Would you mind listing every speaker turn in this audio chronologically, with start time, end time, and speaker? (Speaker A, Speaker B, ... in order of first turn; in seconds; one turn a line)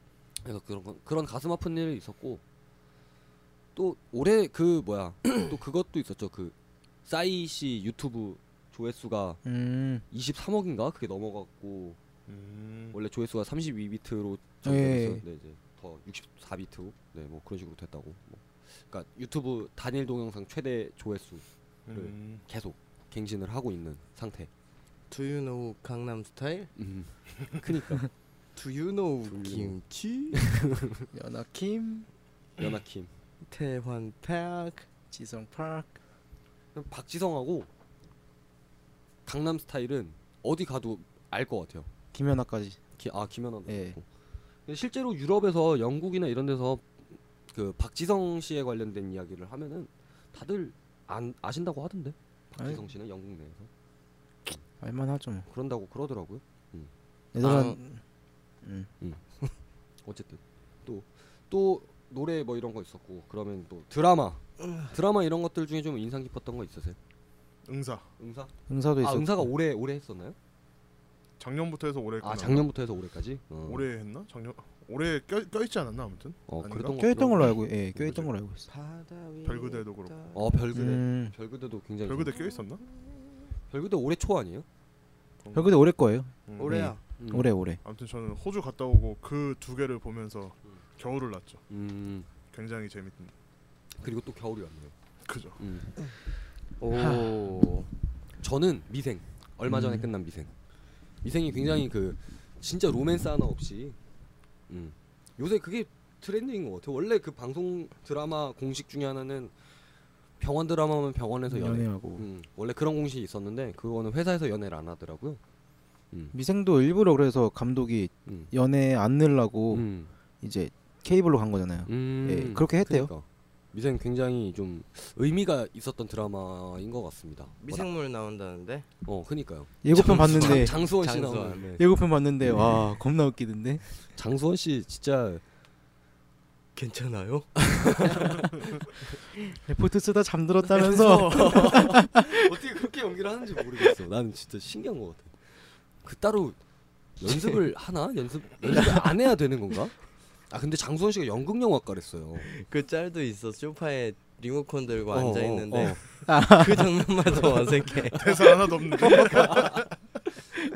Speaker A: 0.4-2.4
Speaker A: 3.7-9.4
Speaker B: 9.4-10.0
Speaker A: 10.1-12.0
Speaker C: 12.3-13.0
Speaker A: 12.9-24.5
Speaker B: 14.6-15.2
Speaker C: 21.9-22.4
Speaker D: 25.1-26.7
Speaker A: 26.8-28.1
Speaker D: 28.5-30.6
Speaker A: 29.3-29.8
Speaker A: 30.3-31.1
Speaker B: 31.1-32.1
Speaker A: 32.6-33.1
Speaker D: 33.5-34.9
Speaker B: 35.1-35.9
Speaker A: 36.7-37.7
Speaker A: 39.2-41.9
Speaker B: 42.1-42.8
Speaker A: 43.0-44.0
Speaker B: 43.7-44.0
Speaker A: 44.7-53.7
Speaker B: 54.8-55.5
Speaker A: 55.5-56.9
Speaker B: 57.3-58.0
Speaker D: 57.4-57.8
Speaker B: 58.6-58.9
Speaker A: 60.0-67.0
Speaker C: 67.6-68.1
Speaker A: 68.2-70.4
Speaker B: 68.7-69.5
Speaker C: 71.4-72.7
Speaker A: 72.2-73.9
Speaker C: 73.6-77.0
Speaker A: 76.5-78.3
Speaker B: 77.0-78.7
Speaker D: 78.7-80.6
Speaker C: 79.4-80.2
Speaker A: 80.3-82.4
Speaker B: 80.7-81.3
Speaker C: 82.0-82.8
Speaker D: 82.3-83.5
Speaker A: 83.7-84.7
Speaker C: 85.4-85.8
Speaker B: 85.5-87.8
Speaker C: 86.5-86.9
Speaker D: 86.6-87.0
Speaker A: 87.2-87.5
Speaker C: 87.8-91.6
Speaker A: 91.7-92.3
Speaker C: 92.5-93.3
Speaker A: 94.0-94.9
Speaker C: 95.2-95.6
Speaker A: 95.6-95.9
Speaker D: 96.8-97.9
Speaker B: 97.0-97.4
Speaker A: 98.4-100.5
Speaker B: 99.7-100.1
Speaker A: 101.2-104.0
Speaker A: 104.7-109.5
Speaker A: 110.4-115.4
Speaker B: 111.5-112.2
Speaker B: 116.3-119.9
Speaker A: 118.3-118.5
Speaker A: 119.7-120.1
Speaker B: 120.4-123.1
Speaker A: 121.9-127.9
Speaker D: 127.6-128.9
Speaker A: 129.1-131.9
Speaker B: 129.8-130.8
Speaker D: 130.0-131.7
Speaker B: 131.8-133.8
Speaker A: 134.1-135.4
Speaker D: 136.7-138.8
Speaker A: 137.6-138.6
Speaker B: 139.6-142.3
Speaker D: 140.7-142.0
Speaker A: 141.1-146.6
Speaker A: 147.2-152.5
Speaker D: 152.4-159.6
Speaker A: 155.1-156.0
Speaker B: 156.3-157.0
Speaker C: 158.1-159.9
Speaker A: 159.1-159.8